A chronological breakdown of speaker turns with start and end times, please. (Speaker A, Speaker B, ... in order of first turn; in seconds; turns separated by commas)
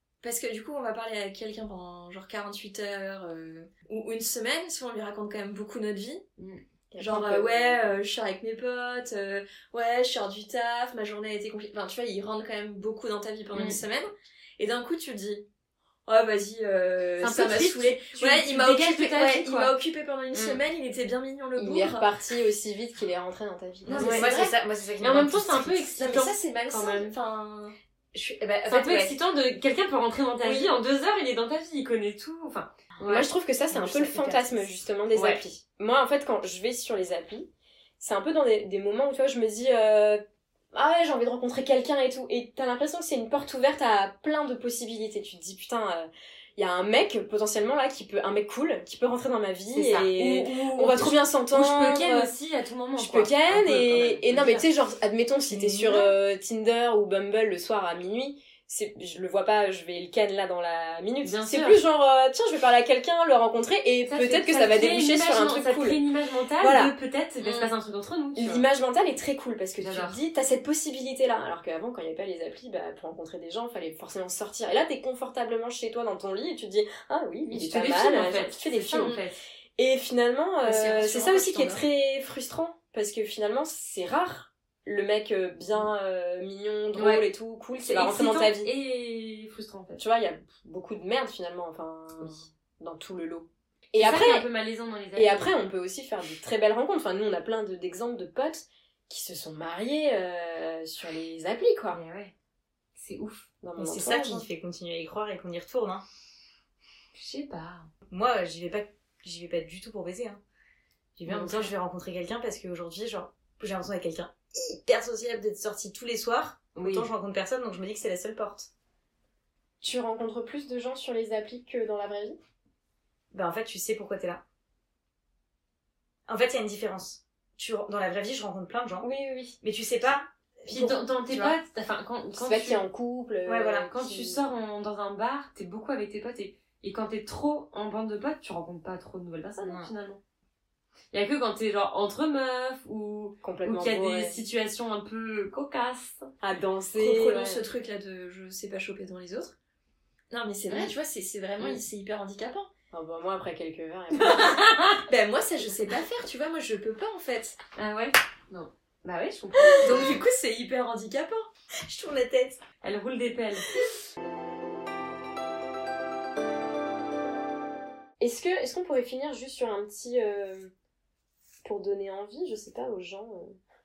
Speaker A: 0.2-6.2, Speaker B: 6.9-8.0, Speaker A: 7.0-15.5, Speaker C: 13.5-13.8, Speaker A: 16.1-22.1, Speaker C: 17.2-19.8, Speaker B: 20.3-20.6, Speaker B: 21.6-24.4, Speaker A: 23.9-24.5, Speaker D: 23.9-25.9, Speaker C: 24.2-27.2, Speaker A: 25.9-27.8, Speaker D: 28.1-29.1, Speaker C: 28.7-33.3, Speaker D: 30.4-30.7, Speaker B: 33.1-37.5, Speaker D: 33.7-34.7, Speaker C: 35.1-35.4, Speaker B: 38.0-52.3, Speaker C: 49.7-54.7, Speaker B: 53.0-66.0, Speaker C: 61.2-61.8, Speaker C: 64.1-68.7, Speaker B: 66.6-66.9, Speaker A: 67.4-67.7, Speaker B: 68.4-79.2, Speaker C: 69.8-70.2, Speaker C: 77.5-79.4, Speaker B: 79.8-88.7, Speaker A: 80.7-81.8, Speaker C: 87.0-87.3, Speaker C: 87.8-90.0, Speaker B: 90.0-94.5, Speaker C: 94.0-95.6, Speaker B: 95.2-102.0, Speaker C: 101.9-102.3, Speaker C: 103.0-103.5, Speaker B: 103.6-104.5, Speaker D: 103.8-106.0, Speaker C: 107.2-107.9, Speaker D: 108.1-110.4, Speaker D: 111.2-118.7, Speaker C: 111.3-111.7, Speaker C: 116.8-117.1, Speaker B: 119.8-122.4, Speaker D: 123.3-124.4, Speaker D: 126.3-129.1, Speaker B: 129.0-129.6, Speaker D: 129.6-131.6, Speaker C: 130.7-132.8, Speaker B: 132.4-134.4, Speaker D: 133.5-133.9, Speaker C: 133.9-140.2, Speaker D: 139.6-139.9, Speaker C: 141.1-146.3, Speaker B: 143.4-144.4, Speaker B: 146.4-147.7, Speaker A: 147.0-149.6, Speaker A: 150.3-152.7, Speaker B: 152.9-154.7, Speaker A: 154.2-157.6, Speaker C: 154.3-155.0, Speaker C: 157.8-160.2, Speaker A: 159.8-161.5, Speaker D: 161.9-162.6, Speaker C: 162.8-163.8, Speaker B: 168.2-170.7, Speaker B: 171.6-173.6